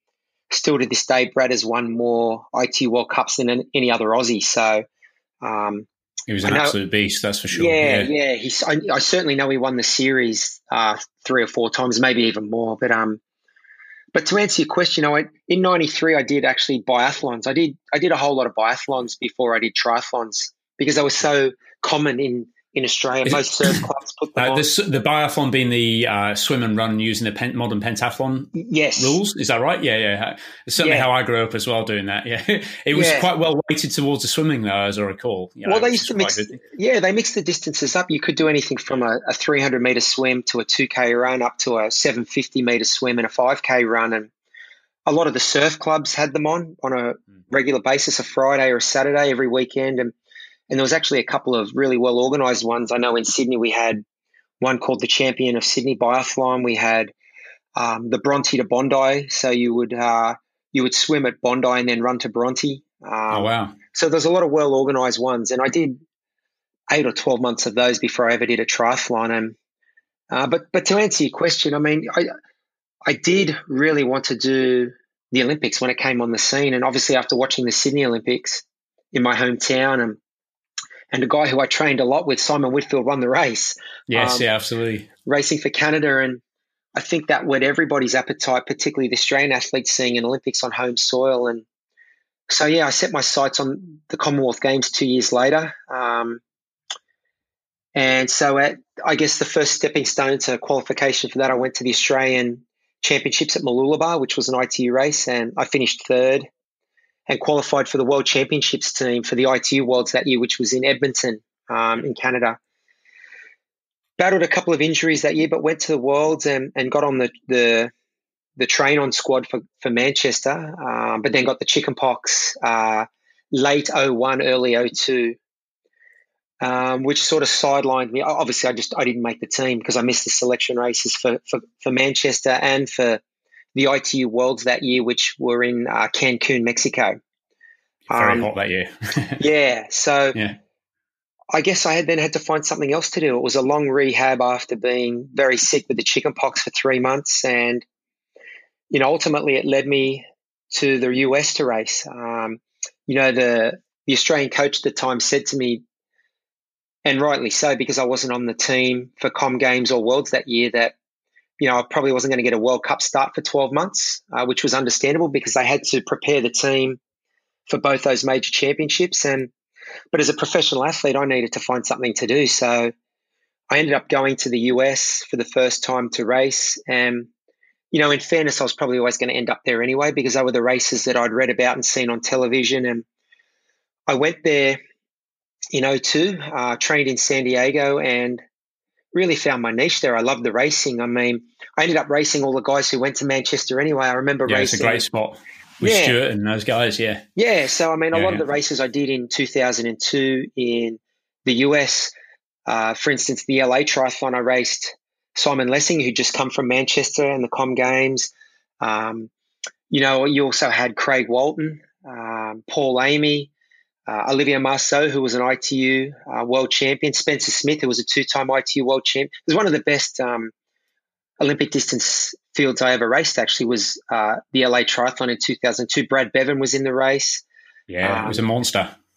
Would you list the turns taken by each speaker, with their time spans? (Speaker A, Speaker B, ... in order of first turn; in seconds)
Speaker A: 0.5-4.8, 5.4-5.9, 6.4-6.7, 7.5-13.2, 14.1-24.6, 28.5-29.2, 30.8-31.1, 32.9-33.3, 35.6-44.3, 45.0-50.1, 50.7-54.0, 54.6-57.1, 57.8-66.0, 66.9-69.5, 70.3-72.3, 73.0-80.2, 81.1-84.5, 85.2-86.4, 86.9-91.6, 92.5-96.4, 97.9-106.5, 107.3-112.6, 114.2-117.9, 118.6-125.4, 126.6-133.2, 133.7-137.2, 138.1-138.5, 139.4-140.3, 141.5-147.8, 148.9-155.8, 157.0-160.9, 161.6-167.0, 167.7-169.5, 170.1-172.9, 173.7-177.3, 177.9-183.0, 184.1-184.8, 185.7-188.4, 189.1-195.0, 195.8-196.2, 197.3-202.1, 202.7-209.3, 209.9-213.5, 214.1-220.5, 221.4-227.4, 228.0-228.4
Speaker B: 6.3-8.1, 23.3-23.8, 24.4-36.6, 63.3-63.8, 84.1-85.1, 138.1-139.4, 194.5-197.2, 198.1-198.4, 227.9-228.9